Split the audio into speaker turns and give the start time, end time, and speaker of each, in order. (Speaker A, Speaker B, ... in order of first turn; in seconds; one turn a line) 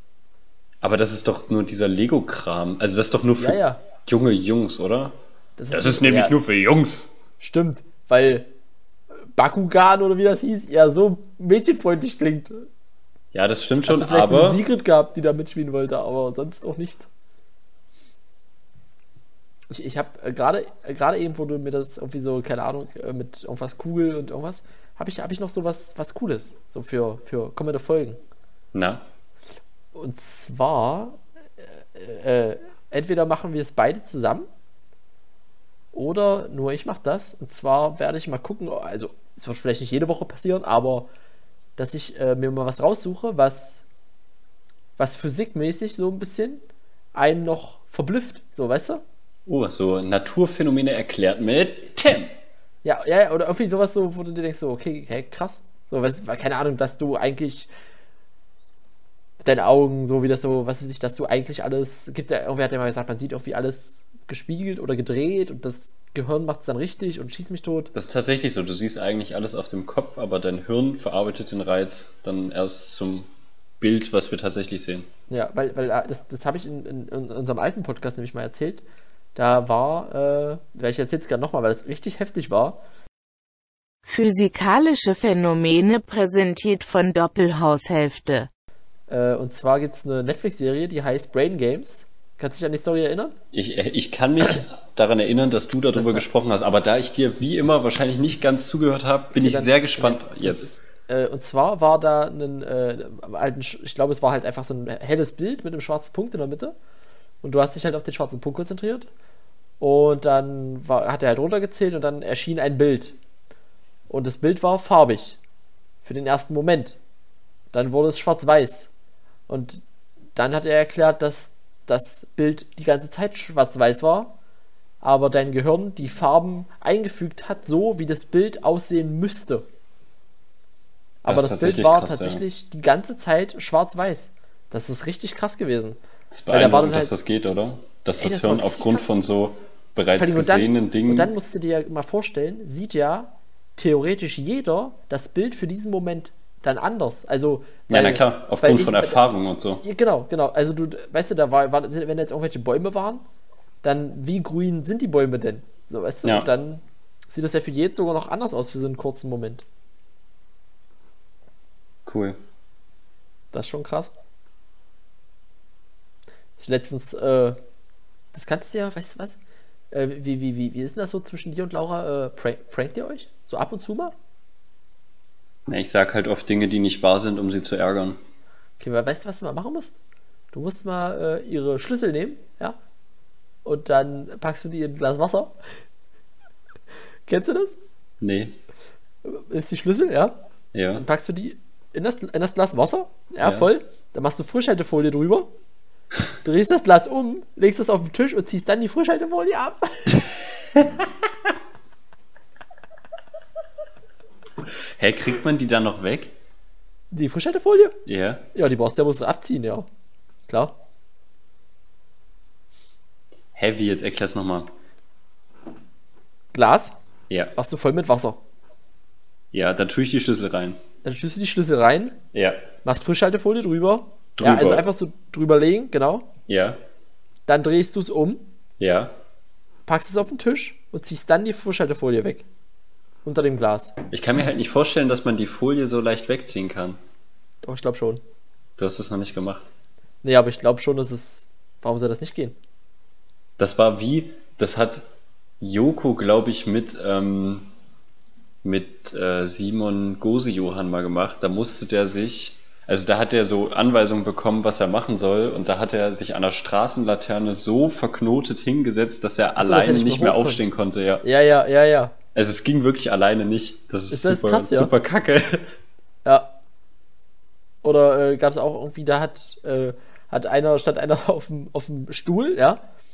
Speaker A: 0.8-5.2
Speaker B: 3.4-3.8
Speaker B: 5.6-6.4
Speaker A: 5.7-7.1
Speaker B: 7.4-8.5
Speaker B: 9.3-12.7
Speaker A: 13.3-14.6
Speaker B: 13.8-17.1
Speaker B: 19.7-28.2
Speaker A: 28.7-29.0
Speaker B: 29.9-34.5
Speaker B: 35.9-41.1
Speaker B: 41.8-43.8
Speaker B: 45.0-46.6
Speaker B: 47.1-49.0
Speaker A: 49.5-52.4
Speaker B: 52.8-57.7
Speaker B: 59.4-67.9
Speaker A: 67.9-73.3
Speaker A: 73.8-75.1
Speaker B: 75.3-78.8
Speaker B: 79.3-82.8
Speaker C: 84.0-88.5
Speaker B: 89.1-93.3
Speaker A: 93.5-100.7
Speaker B: 95.9-96.2
Speaker B: 99.3-106.7
Speaker B: 107.4-109.1
Speaker B: 109.8-113.1
Speaker B: 114.1-115.4
Speaker B: 116.0-117.0
Speaker B: 117.7-118.9
Speaker B: 119.5-119.8
Speaker B: 120.3-124.3
Speaker B: 125.0-129.6
Speaker B: 131.2-136.0
Speaker A: 131.3-132.4
Speaker A: 136.3-141.3
Speaker B: 136.5-137.2
Speaker B: 138.2-139.1
Speaker B: 140.2-153.2
Speaker A: 147.9-149.8
Speaker B: 153.8-159.6
Speaker A: 156.2-156.5
Speaker A: 162.1-162.4
Speaker B: 163.5-164.1
Speaker B: 166.6-167.6
Speaker B: 168.3-169.4
Speaker B: 169.9-174.1
Speaker A: 175.7-178.2
Speaker B: 178.8-180.0
Speaker B: 180.5-182.8
Speaker B: 183.6-185.5
Speaker B: 187.3-187.8
Speaker A: 188.2-188.6
Speaker B: 189.2-190.4
Speaker A: 190.7-191.0
Speaker B: 190.9-195.5
Speaker A: 193.4-193.7
Speaker B: 196.4-200.3
Speaker A: 205.0-206.3
Speaker B: 207.1-208.0
Speaker A: 208.1-208.4
Speaker B: 208.5-209.8
Speaker B: 210.5-210.7
Speaker A: 213.5-214.7
Speaker B: 216.5-216.9
Speaker B: 217.5-218.4
Speaker A: 219.5-220.8
Speaker B: 221.0-222.2
Speaker A: 222.3-222.7
Speaker B: 222.8-226.3
Speaker A: 224.4-224.8
Speaker A: 226.5-226.8
Speaker B: 227.5-228.5
Speaker A: 228.8-229.1
Speaker B: 229.9-232.4
Speaker B: 233.2-233.9
Speaker A: 234.1-237.0
Speaker B: 237.6-238.2
Speaker A: 238.8-239.6
Speaker B: 240.2-242.5
Speaker A: 243.6-245.0
Speaker A: 245.6-247.7
Speaker A: 248.6-261.2
Speaker B: 259.6-260.6
Speaker B: 261.2-262.1
Speaker A: 262.3-265.7
Speaker B: 264.1-264.9
Speaker B: 266.2-266.5
Speaker B: 267.8-272.8